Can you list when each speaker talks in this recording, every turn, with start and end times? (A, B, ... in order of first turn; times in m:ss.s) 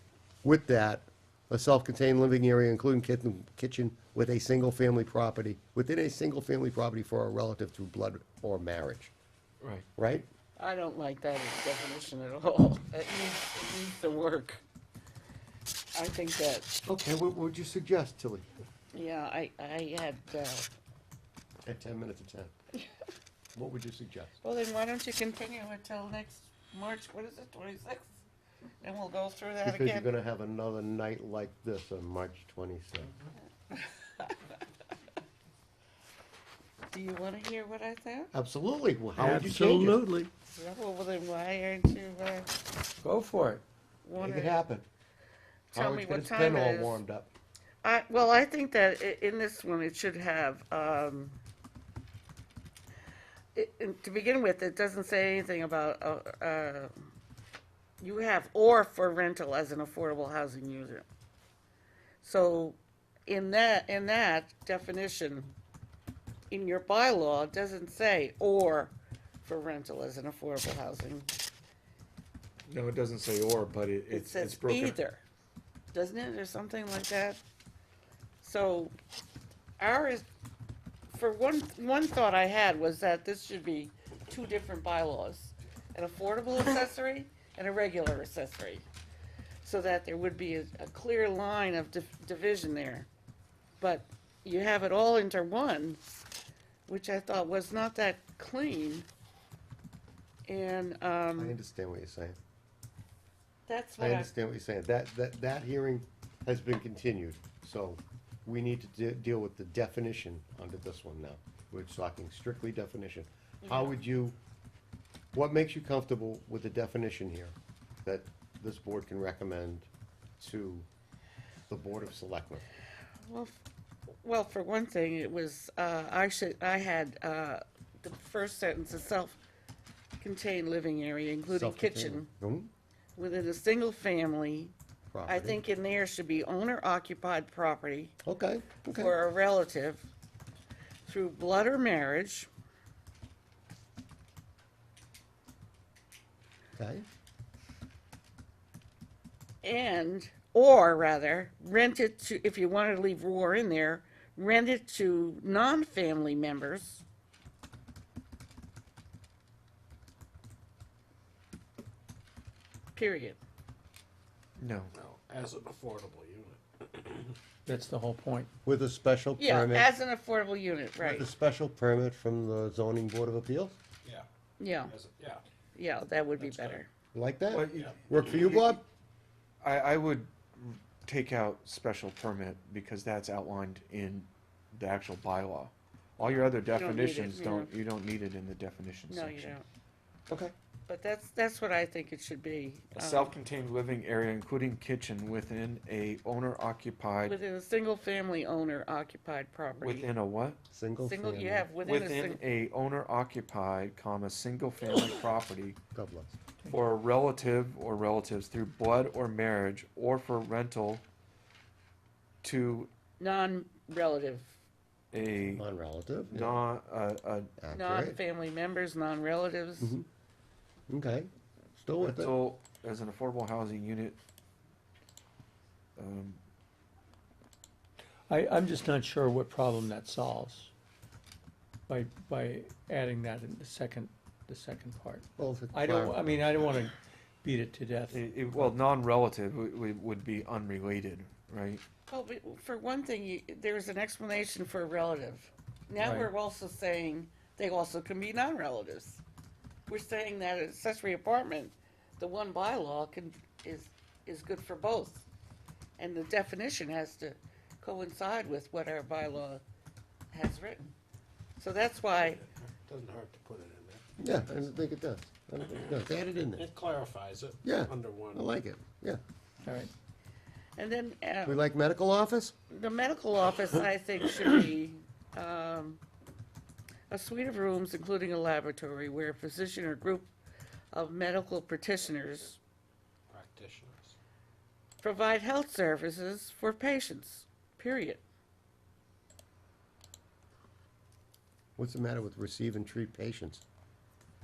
0:00.4-0:09.1 A
0:09.6-0:09.8 B
0:10.0-0:10.3 A
0:10.6-0:14.6 C
0:15.9-0:16.7 C
0:16.8-0:18.5 A
0:18.9-0:20.7 C
0:21.6-0:22.5 A
0:23.5-0:24.4 A
0:24.4-0:28.2 C
0:28.8-0:30.1 C
0:29.6-0:33.1 A
0:36.9-0:38.3 C
0:38.3-0:40.0 A
0:39.2-0:40.3 D
0:40.5-0:42.5 C
0:43.0-0:43.6 D
0:44.0-0:44.6 C
0:44.2-0:44.8 A
0:45.7-0:47.0 C
0:45.7-0:47.3 A
0:47.8-0:51.4 C
0:53.5-0:56.9 C
0:58.0-1:01.0 C
1:02.2-1:05.6 C
1:06.5-1:11.3 C
1:12.7-1:15.0 B
1:14.1-1:15.2 C
1:15.9-1:17.4 C
1:18.4-1:18.9 C
1:19.8-1:20.2 C
1:21.1-1:28.9 C
1:29.6-1:33.1 C
1:33.8-1:36.0 C
1:36.9-1:39.1 C
1:40.5-1:41.6 C
1:41.4-1:42.4 A
1:43.7-1:44.3 C
1:44.0-1:54.4 A
1:53.6-1:54.0 C
1:55.3-1:59.9 A
2:00.4-2:00.9 A
2:01.7-2:02.6 A
2:03.2-2:03.6 C
2:04.2-2:09.4 C
2:10.2-2:12.3 C
2:11.5-2:12.7 A
2:13.2-2:14.7 C
2:15.1-2:15.6 A
2:15.2-2:18.2 C
2:18.2-2:19.1 A
2:18.9-2:20.1 C
2:21.0-2:22.5 C
2:26.8-2:27.0 A
2:29.6-2:37.0 C
2:42.9-2:43.4 C
2:44.6-2:44.9 B
2:44.9-2:47.4 E
2:47.6-2:48.5 D
2:48.6-2:49.9 A
2:49.4-2:51.3 C
2:51.0-2:53.8 A
2:54.6-2:54.9 C
2:54.9-2:55.4 E
2:55.7-2:56.9 C
2:56.4-2:56.8 E
2:57.1-2:58.8 A
2:57.5-2:58.8 B
2:59.6-3:09.6 B
3:06.7-3:07.7 C
3:09.1-3:09.6 C
3:10.9-3:13.4 C
3:12.9-3:17.3 B
3:17.2-3:20.1 C
3:19.8-3:20.6 B
3:20.7-3:21.7 A
3:21.0-3:22.4 C
3:21.8-3:25.8 B
3:25.9-3:26.4 A
3:26.7-3:31.0 B
3:32.4-3:32.9 B
3:33.2-3:34.6 C
3:35.1-3:35.6 B
3:35.5-3:36.6 A
3:36.3-3:37.5 B
3:37.6-3:38.2 A
3:37.7-3:39.9 C
3:39.8-3:40.0 A
3:40.9-3:41.3 A
3:41.8-3:42.3 A
3:42.0-3:44.2 B
3:46.0-3:46.4 B
3:48.3-3:50.7 D
3:51.9-3:58.7 D
3:55.4-3:56.3 A
3:58.1-4:01.8 B
4:02.1-4:09.2 C
4:06.0-4:06.3 D
4:09.9-4:15.2 C
4:16.0-4:19.6 C
4:20.3-4:20.9 C
4:21.6-4:22.4 C
4:22.5-4:24.4 E
4:24.2-4:26.7 A
4:26.6-4:28.5 E
4:27.6-4:29.2 A
4:29.6-4:29.9 D
4:30.8-4:31.6 C
4:31.4-4:32.5 A
4:32.7-4:36.0 C
4:37.1-4:40.3 C
4:40.9-4:42.6 C
4:43.3-4:44.1 E
4:45.0-4:48.2 C
4:51.8-4:53.6 A